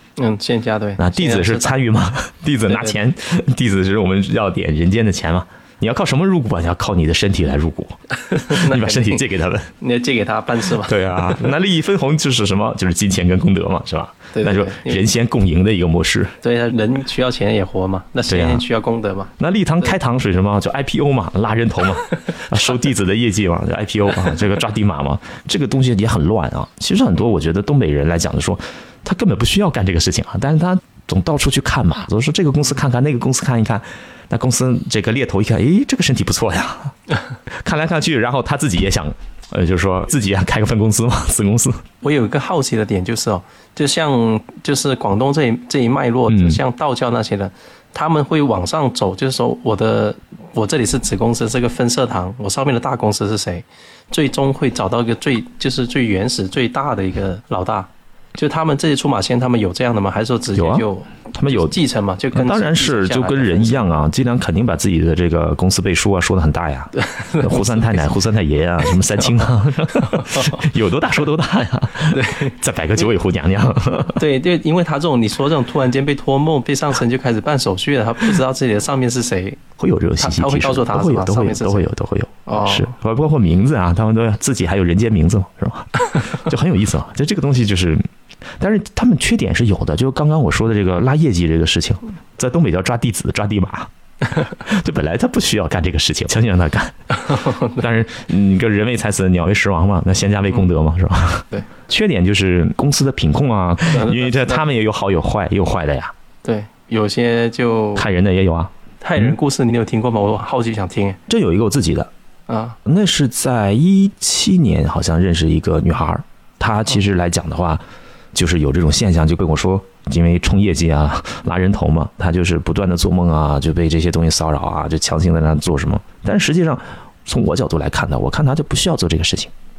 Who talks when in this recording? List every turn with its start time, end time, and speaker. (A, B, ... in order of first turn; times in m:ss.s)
0:00.2-0:01.7 A
0:01.0-0:09.7 B
0:02.7-0:03.0 A
0:08.1-0:09.2 A
0:09.8-0:10.9 A
0:10.8-0:16.4 B
0:14.3-0:15.0 A
0:16.4-0:19.3 A
0:18.3-0:18.6 B
0:19.4-0:37.0 B
0:37.5-0:41.8 B
0:42.0-1:03.8 A
0:46.3-0:46.6 B
1:00.6-1:01.8 B
1:02.3-1:14.2 B
1:07.0-1:08.1 A
1:10.0-1:10.7 A
1:12.1-1:12.6 A
1:14.1-1:19.6 A
1:19.8-1:28.1 B
1:20.2-1:21.9 A
1:22.5-1:22.9 A
1:28.6-1:46.1 B
1:37.2-1:37.8 A
1:43.9-1:44.6 A
1:46.4-1:48.1 A
1:48.0-1:49.4 B
1:49.0-1:51.2 A
1:51.3-1:52.1 B
1:52.5-1:52.8 A
1:52.8-1:57.8 B
1:58.3-2:09.5 B